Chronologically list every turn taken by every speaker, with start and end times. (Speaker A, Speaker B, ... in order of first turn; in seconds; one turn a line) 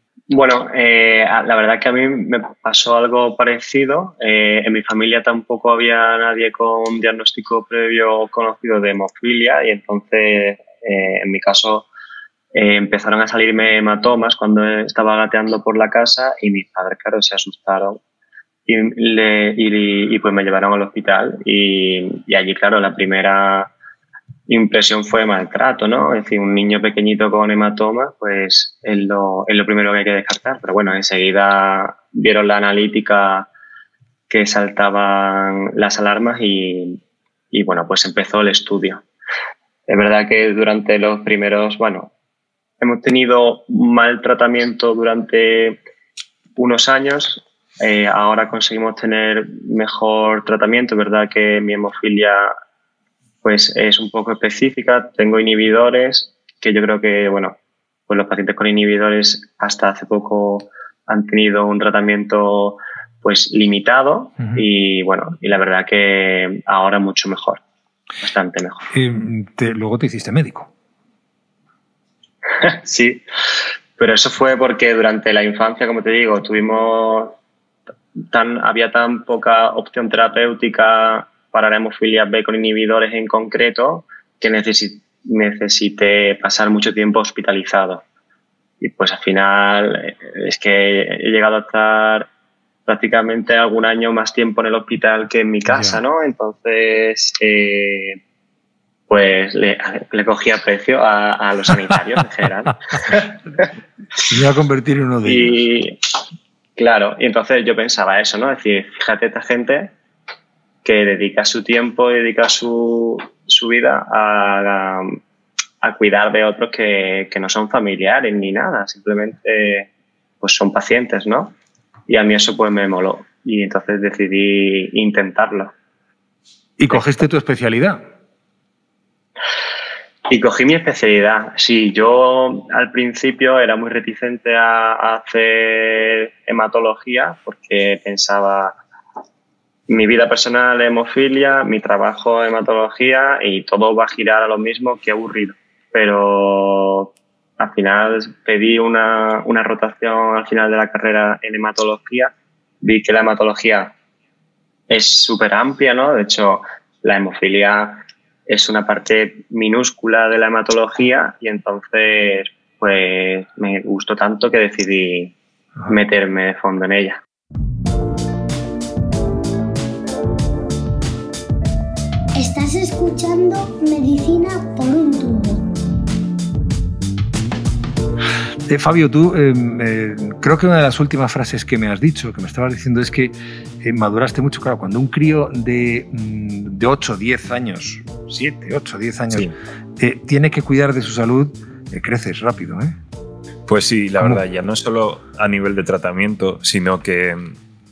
Speaker A: 0.3-11.9
Speaker A: 12.5-18.0
Speaker A: 18.7-23.7
Speaker A: 24.5-33.5
Speaker A: 34.3-37.0
Speaker A: 37.5-39.0
Speaker A: 39.9-42.1
Speaker A: 42.8-45.8
Speaker A: 46.6-52.4
Speaker A: 53.4-57.6
Speaker A: 58.1-67.6
Speaker A: 68.2-68.8
Speaker B: 68.9-70.7
Speaker A: 72.6-73.2
Speaker A: 74.0-77.3
Speaker A: 78.3-88.0
Speaker A: 88.8-92.3
Speaker A: 92.9-98.2
Speaker B: 95.7-96.0
Speaker A: 99.1-103.7
Speaker B: 104.2-105.6
Speaker A: 105.2-105.9
Speaker A: 106.8-109.9
Speaker A: 110.8-115.0
Speaker A: 115.8-119.9
Speaker A: 120.4-121.5
Speaker A: 122.1-125.7
Speaker B: 126.8-128.0
Speaker A: 130.3-138.8
Speaker A: 139.9-152.3
Speaker A: 152.8-153.9
Speaker A: 154.9-165.3
Speaker A: 165.9-167.2
Speaker C: 172.3-175.7
Speaker B: 178.7-193.0
Speaker D: 193.7-197.6